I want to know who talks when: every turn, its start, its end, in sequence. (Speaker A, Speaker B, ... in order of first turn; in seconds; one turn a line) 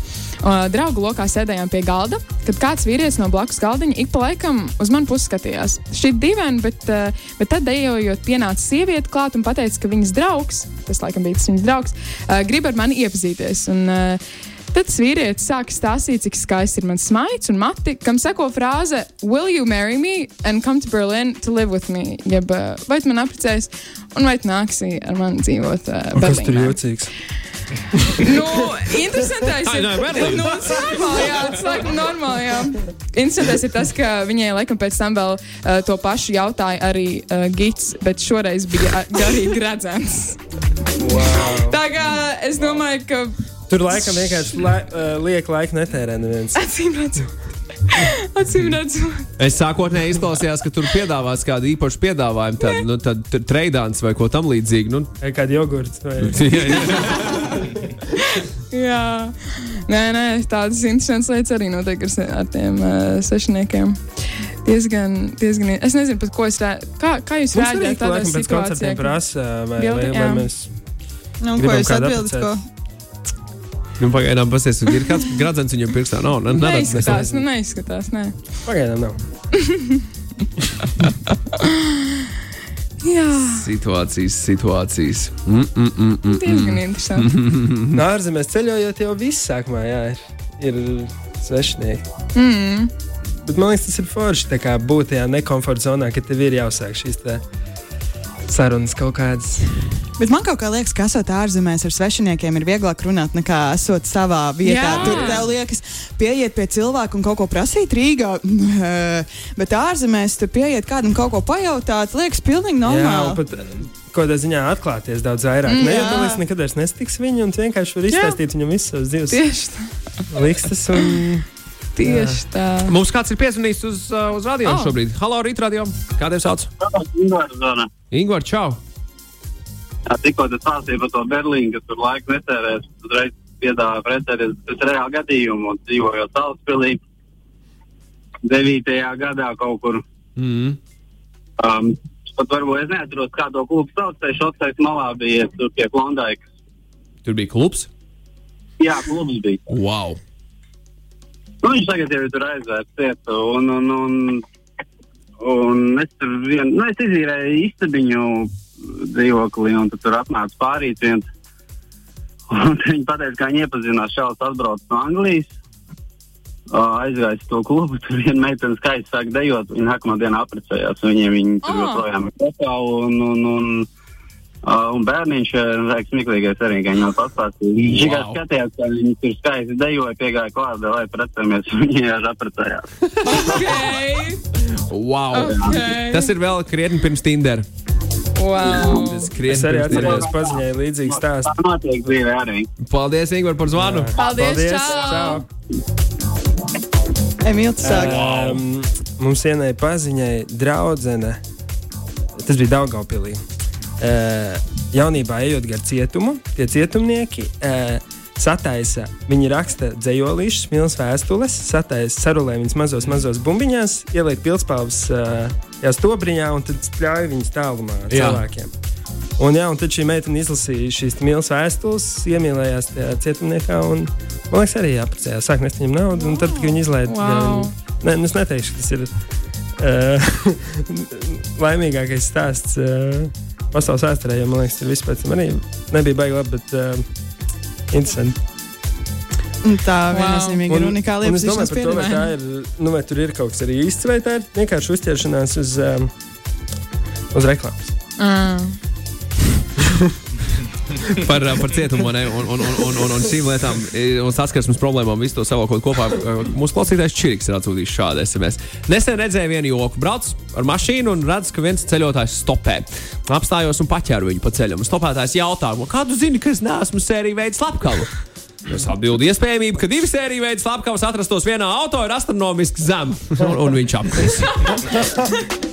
Speaker A: 0.4-26.8
Speaker B: 26.1-27.1
Speaker A: 28.1-40.4
Speaker C: 29.6-30.9
Speaker B: 41.0-41.8
Speaker A: 41.4-43.4
Speaker B: 43.7-46.6
Speaker A: 46.5-47.3
Speaker A: 47.8-49.3
Speaker C: 49.4-55.1
Speaker B: 55.2-56.5
Speaker C: 56.2-57.7
Speaker A: 56.8-57.3
Speaker A: 58.1-64.0
Speaker A: 64.6-69.2
Speaker B: 67.5-70.7
Speaker A: 69.7-70.5
Speaker D: 71.4-72.6
Speaker B: 71.5-72.5
Speaker C: 74.0-77.2
Speaker A: 76.5-78.3
Speaker B: 76.7-77.5
Speaker B: 78.6-79.2
Speaker A: 79.6-80.0
Speaker A: 81.0-82.2
Speaker A: 83.0-83.7
Speaker C: 83.5-88.0
Speaker A: 86.2-87.3
Speaker B: 87.9-92.0
Speaker A: 92.3-92.9
Speaker B: 93.4-97.4
Speaker B: 98.5-99.8
Speaker D: 100.2-113.4
Speaker A: 104.6-105.5
Speaker B: 105.0-105.4
Speaker B: 112.8-119.4
Speaker A: 115.7-116.1
Speaker D: 115.8-116.4
Speaker A: 118.1-118.4
Speaker A: 119.3-120.3
Speaker B: 120.3-121.4
Speaker A: 122.0-122.9
Speaker B: 122.0-122.4
Speaker C: 122.9-126.7
Speaker A: 124.6-125.0
Speaker E: 126.8-127.9
Speaker C: 128.1-128.8
Speaker E: 130.1-137.0
Speaker E: 138.4-140.0
Speaker C: 140.3-140.8
Speaker E: 141.6-146.4
Speaker C: 147.2-147.9
Speaker E: 148.8-149.7
Speaker C: 149.7-150.2
Speaker E: 151.6-154.4
Speaker E: 155.4-161.3
Speaker E: 162.5-165.5
Speaker E: 166.7-173.9
Speaker A: 171.6-172.1
Speaker E: 174.6-182.8
Speaker C: 177.9-178.4
Speaker A: 183.2-184.4
Speaker E: 183.4-183.8
Speaker C: 184.8-187.7
Speaker A: 185.3-186.3
Speaker E: 185.3-185.7
Speaker A: 188.3-189.3
Speaker C: 188.6-190.3
Speaker B: 189.4-192.1
Speaker E: 189.9-192.7
Speaker C: 192.8-194.1
Speaker B: 193.7-195.5
Speaker A: 194.1-195.4
Speaker D: 197.4-198.2
Speaker B: 197.8-201.4
Speaker C: 197.9-198.6
Speaker B: 202.4-203.4
Speaker B: 204.0-218.7
Speaker C: 218.1-218.4
Speaker B: 219.4-229.1
Speaker A: 226.3-227.7
Speaker B: 229.8-237.0
Speaker B: 237.9-238.4
Speaker D: 239.6-242.1
Speaker A: 240.1-240.6
Speaker B: 240.7-246.1
Speaker A: 241.9-242.3
Speaker B: 247.3-247.9
Speaker A: 248.2-248.8
Speaker C: 251.0-268.1
Speaker C: 268.7-274.9